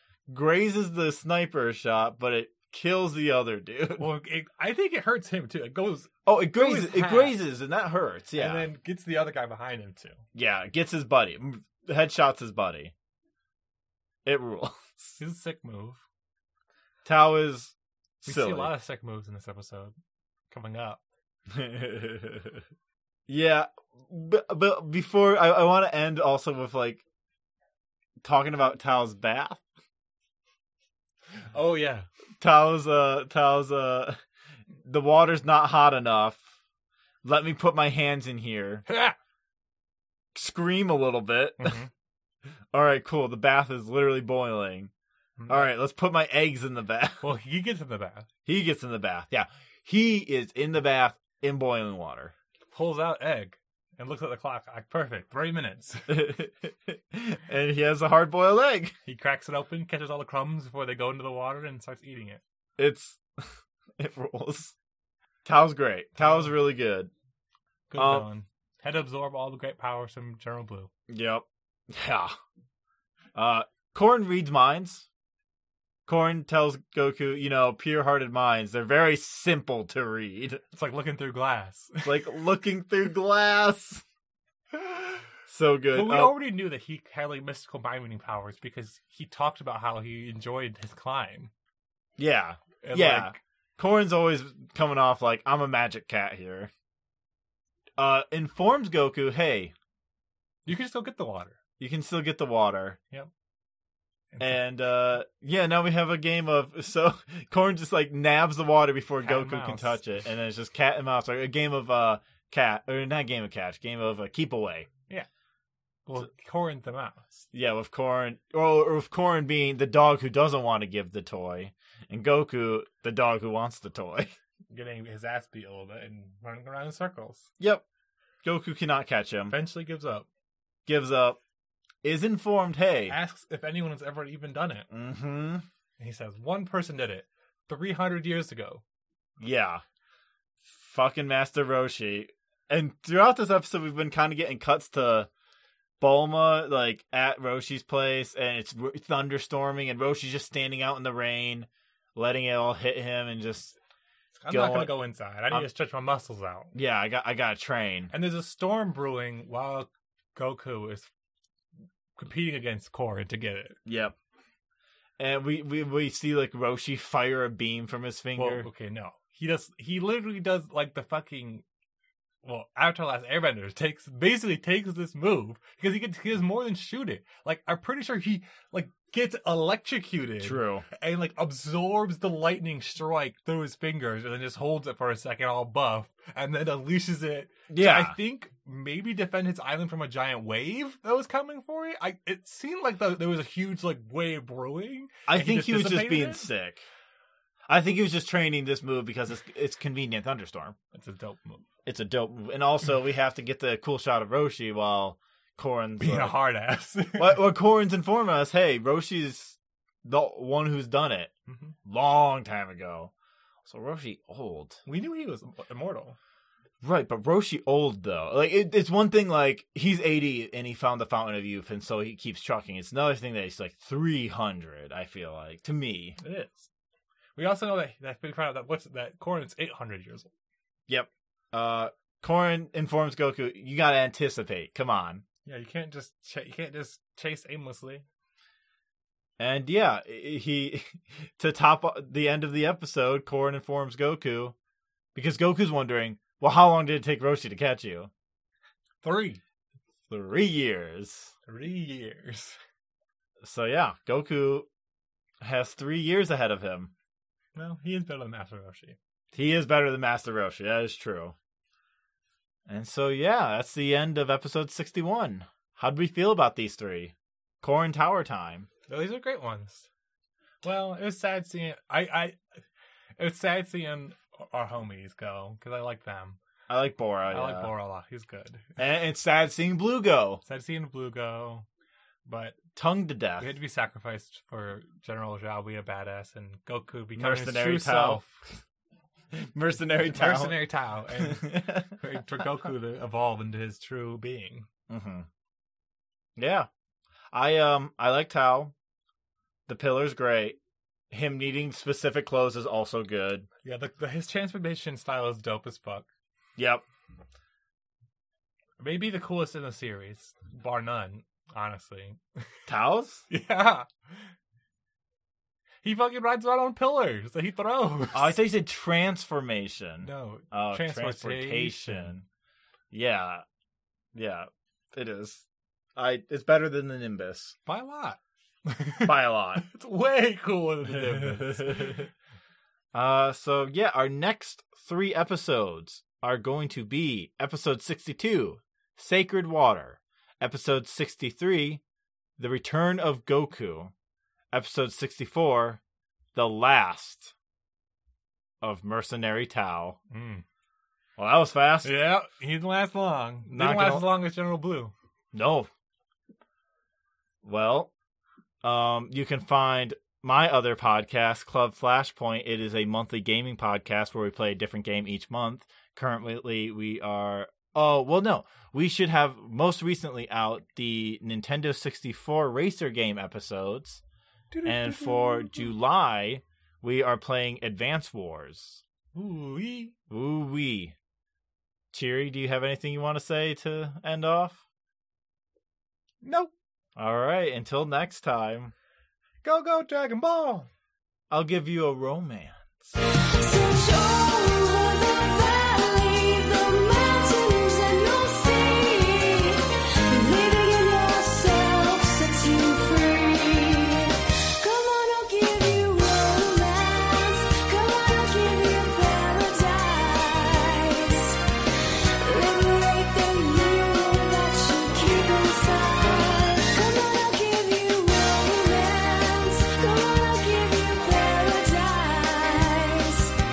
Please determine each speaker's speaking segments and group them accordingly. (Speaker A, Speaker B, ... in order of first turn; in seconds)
Speaker A: 0.3-4.1, 6.3-8.7, 10.3-12.9, 14.2-15.2, 17.1-18.7, 21.5-22.6, 23.3-27.0, 28.2-29.6, 32.4-34.2, 34.8-36.5, 37.2-38.8, 40.4-41.8, 42.7-44.9, 45.5-47.2, 48.5-52.3, 56.1-59.0, 62.8-64.8, 65.5-67.1, 68.0-68.3, 71.1-72.4, 73.3-75.1, 76.1-80.6, 82.0-84.0, 85.5-86.4, 92.2-96.7, 98.0-99.7, 101.8-103.0, 104.4-114.9, 117.5-124.4, 128.4-129.6, 130.9-131.4, 132.0-133.2, 134.9-135.7, 139.4-139.8, 140.6-145.3, 146.0-153.8, 154.5-154.9, 156.7-158.1, 163.9-164.2, 165.2-168.7, 180.4-180.8, 187.7-188.2, 195.3-196.9, 197.7-200.8, 201.9-206.4, 207.2-211.3, 211.9-213.1, 213.7-214.8, 216.8-226.2, 230.9-235.2, 239.4-244.5, 245.1-248.1, 250.1-251.3, 253.4-254.7, 255.4-256.9, 259.3-261.4, 262.7-268.7, 276.7-277.7, 278.8-280.4, 282.7-283.5, 287.2-288.4, 289.3-290.6, 291.1-291.9, 294.9-295.3, 296.4-296.7, 297.3-298.7, 299.7-300.6, 301.1-303.5, 306.6-306.8, 312.7-313.2, 318.1-322.2, 322.9-323.4, 324.1-325.4, 326.0-327.6, 329.0-329.6, 331.1-332.1, 332.9-341.8, 342.4-343.9, 344.5-345.8, 346.4-347.3, 348.6-350.0, 351.2-351.9, 353.5-354.2, 355.3-355.7, 357.4-357.9, 358.6-374.0, 374.6-378.8, 380.1-380.9, 381.9-384.6, 387.0-388.7, 391.3-392.9
Speaker B: 4.0-7.4, 8.3-10.2, 15.2-16.0, 18.3-19.9, 20.5-21.0, 31.5-32.1, 38.9-39.2, 41.6-41.9, 45.4-45.7, 47.2-48.3, 52.7-56.3, 59.1-62.4, 66.2-66.5, 67.9-70.9, 80.7-82.4, 85.9-91.5, 92.8-93.4, 100.7-101.6, 104.3-104.6, 109.2-110.0, 116.1-117.5, 124.7-127.5, 129.5-130.3, 133.1-134.9, 136.0-138.8, 154.4-156.7, 158.1-161.1, 162.2-163.8, 168.4-171.7, 172.4-196.5, 200.9-201.7, 206.0-207.4, 211.5-211.7, 214.9-216.2, 226.2-226.7, 227.4-230.3, 235.5-238.1, 249.0-249.4, 251.5-252.6, 257.6-259.0, 268.9-269.9, 270.6-272.4, 273.2-276.4, 277.3-278.7, 280.4-281.7, 282.3-282.6, 283.4-288.4, 290.1-294.7, 303.6-306.1, 308.8-312.4, 313.3-314.3, 315.8-318.4, 320.0-322.1, 327.7-332.1, 350.1-350.4, 351.8-354.9, 374.5-375.7, 379.1-379.9, 386.2-386.5, 389.4-390.7
Speaker C: 393.4-411.4, 412.2-423.3